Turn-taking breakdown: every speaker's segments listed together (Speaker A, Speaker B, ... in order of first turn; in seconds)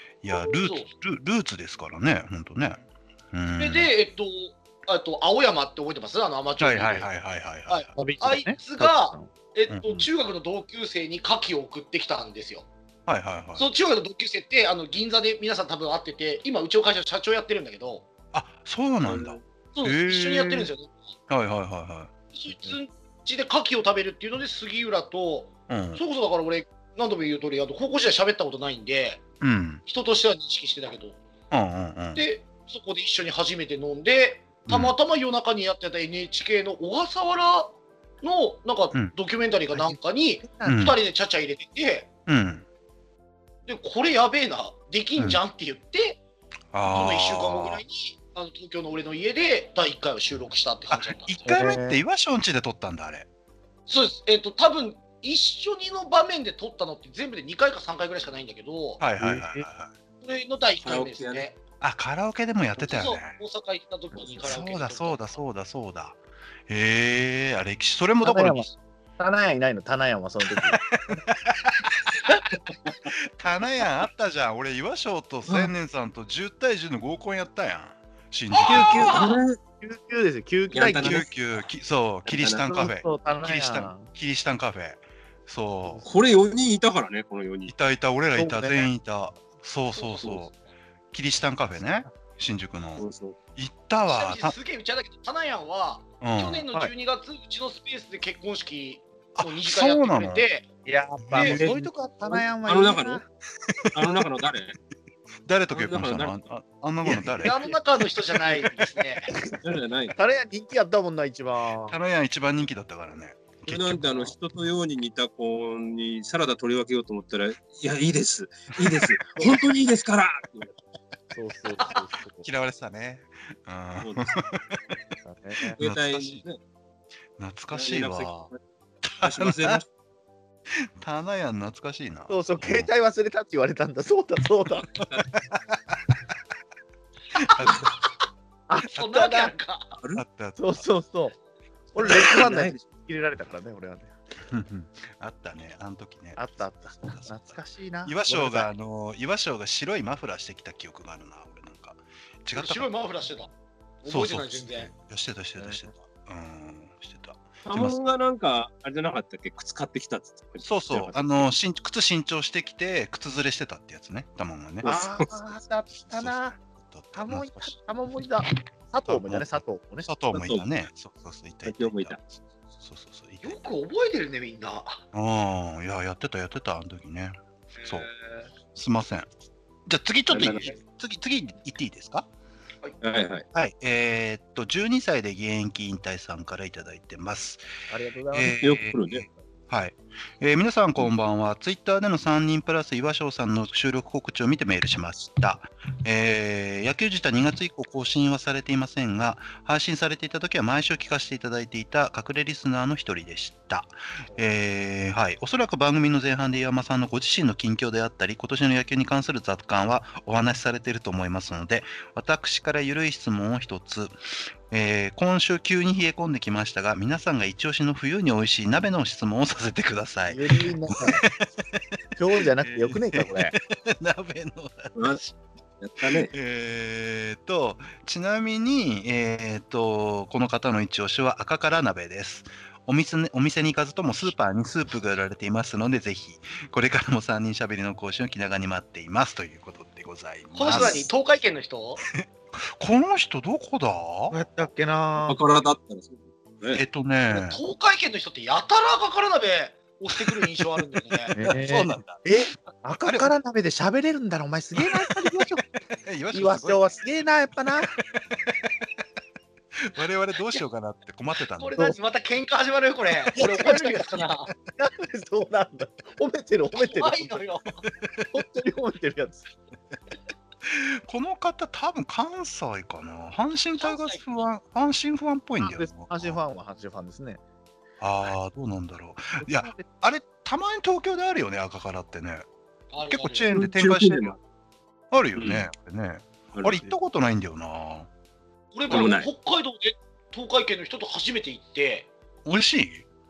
Speaker A: 0.2-3.9, 6.6-7.9, 9.7-10.1, 13.1-13.7, 18.3-20.7, 21.3-22.1, 25.7-26.0, 29.4-29.8, 31.5-32.2, 34.7-35.0, 40.6-41.0, 42.3-42.6, 46.7-47.8, 50.9-53.3, 59.0-59.9, 61.8-63.4, 64.4-68.7, 70.5-72.4, 73.1-79.2, 81.0-86.0, 87.7-90.5, 91.1-94.5, 96.2-96.7, 99.3-100.4, 101.2-101.6, 105.4-107.7, 111.9-114.0, 122.4-124.8, 125.7-126.4, 127.4-128.5, 129.0-129.8, 131.0-132.9, 135.5-135.9, 137.3-137.9, 140.2-140.8, 144.5-152.9, 154.1-158.0, 160.6-164.9, 165.9-167.7, 169.1-173.7, 175.1-178.1, 178.7-179.3, 179.9-182.3, 183.5-187.6, 188.3-214.2, 214.7-221.3, 222.6-225.4, 226.0-241.1, 242.2-244.4, 246.7-247.6, 251.2-252.2, 253.0-253.3, 254.8-255.4, 256.0-256.8, 259.8-261.9, 270.6-276.4, 278.0-282.4, 283.1-284.4, 285.1-288.1, 292.4-293.0
Speaker B: 0.3-0.9, 3.6-7.1, 7.7-12.7, 13.6-18.1, 19.7-20.9, 22.3-29.2, 29.8-31.2, 32.1-42.1, 43.7-46.2, 46.8-51.5, 53.9-59.0, 60.2-61.6, 62.8-65.4, 78.5-79.4, 94.1-100.6, 107.4-109.3, 121.8-122.0, 138.9-139.9, 152.5-153.5, 154.0-154.9, 173.4-175.0, 177.8-178.4, 240.5-242.0, 247.3-251.3, 261.6-264.5, 266.7-267.8, 273.8-274.2, 282.9-283.5, 288.7-292.1
Speaker C: 8.0-9.3, 39.7-40.9, 51.5-52.0, 59.2-59.6, 68.2-68.7, 69.2-70.8, 78.6-81.3, 82.7-84.1, 88.3-88.9, 100.8-103.2, 107.1-107.3, 110.1-112.0, 114.1-114.3, 121.3-122.5, 125.2-125.8, 132.3-134.9, 138.7-139.5, 140.6-141.3, 141.9-144.1, 146.3-148.7, 155.6-155.9, 164.8-166.6, 167.1-170.1, 187.9-188.6, 220.3-221.2, 222.2-223.5, 240.7-241.0, 244.3-245.4, 251.3-255.6, 256.3-257.9, 263.3-267.4, 268.3-269.4, 275.6-277.4, 279.4-279.8
Speaker D: 19.0-19.4, 60.8-61.5, 78.7-79.6, 80.7-81.3, 82.2-82.7, 86.0-87.7, 90.1-90.4, 93.0-93.3, 101.4-103.2, 103.9-104.8, 105.7-106.5, 109.6-110.1, 113.7-120.7, 124.0-124.3, 125.8-126.6, 127.7-128.6, 129.2-129.8, 134.7-135.3, 140.0-140.2, 142.0-142.8, 157.6-161.3, 164.8-165.3, 170.3-170.6, 171.7-172.2, 180.3-180.8, 183.0-183.4, 188.6-189.3, 225.8-226.3, 245.2-246.8, 283.5-284.4, 285.3-285.7, 286.5-286.9, 288.9-289.3